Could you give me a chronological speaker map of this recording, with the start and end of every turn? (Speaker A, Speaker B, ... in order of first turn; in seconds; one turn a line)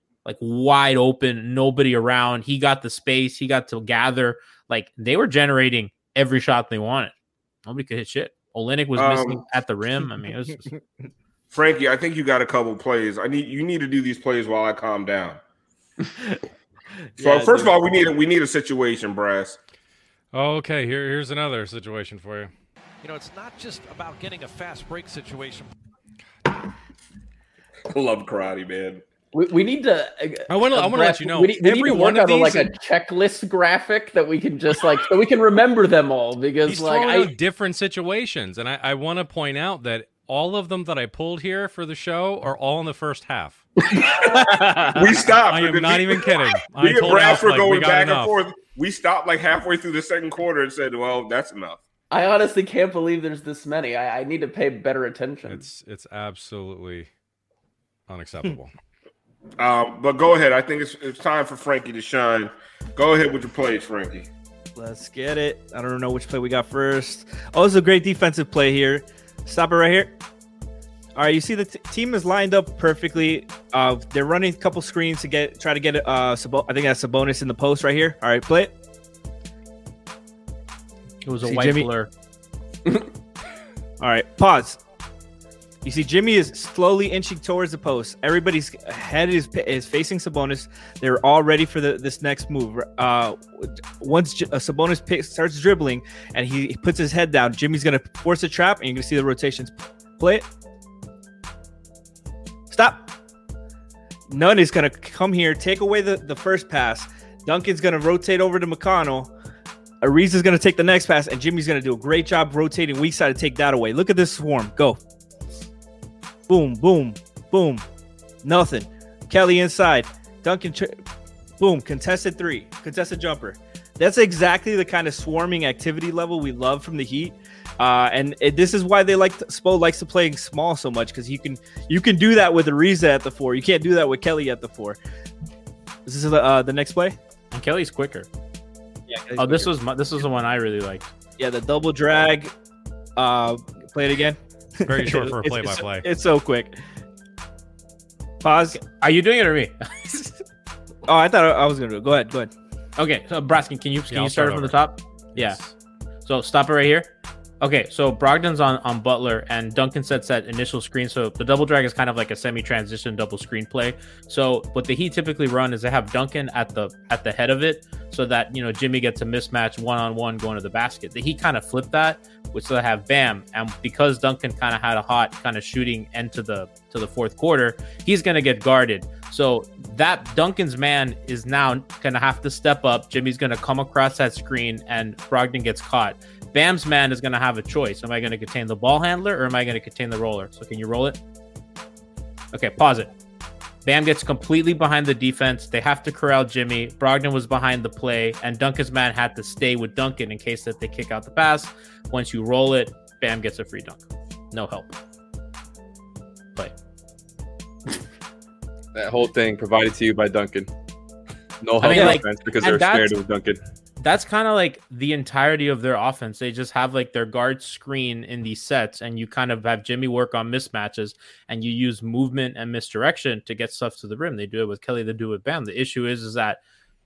Speaker A: 0.2-7.1
Speaker A: 7.7-10.7
Speaker B: 9.0-9.4
Speaker B: 11.5-15.4
Speaker C: 17.2-17.8
Speaker B: 17.2-19.6
Speaker D: 20.3-22.5
Speaker E: 23.0-25.7
Speaker B: 27.9-29.0
Speaker F: 29.3-37.3
Speaker D: 30.5-32.7
Speaker D: 36.6-43.6
Speaker F: 43.9-44.3
Speaker A: 44.3-45.0
Speaker B: 44.9-51.8
Speaker D: 45.5-48.4
Speaker F: 52.1-55.6
Speaker D: 55.5-57.1
Speaker D: 58.1-58.7
Speaker B: 59.6-64.3
Speaker C: 64.8-70.2
Speaker C: 71.2-78.7
Speaker A: 81.2-82.1
Speaker C: 81.4-81.9
Speaker C: 84.0-84.8
Speaker C: 85.8-100.5
Speaker C: 102.7-103.1
Speaker C: 104.3-109.3
Speaker C: 110.0-115.0
Speaker C: 116.5-117.8
Speaker C: 118.4-121.0
Speaker C: 121.6-135.0
Speaker C: 136.1-137.2
Speaker A: 137.5-138.3
Speaker C: 139.1-139.7
Speaker A: 139.4-141.1
Speaker C: 141.4-142.5
Speaker C: 143.2-146.8
Speaker D: 144.9-146.1
Speaker C: 148.4-148.8
Speaker A: 148.7-150.2
Speaker C: 151.1-152.5
Speaker A: 153.0-155.6
Speaker D: 154.1-154.8
Speaker D: 155.3-155.7
Speaker A: 156.3-157.1
Speaker A: 157.6-191.2
Speaker A: 192.5-193.1
Speaker A: 193.8-205.0
Speaker G: 208.9-210.7
Speaker G: 211.6-213.6
Speaker A: 211.8-213.1
Speaker C: 211.9-212.2
Speaker A: 214.0-226.6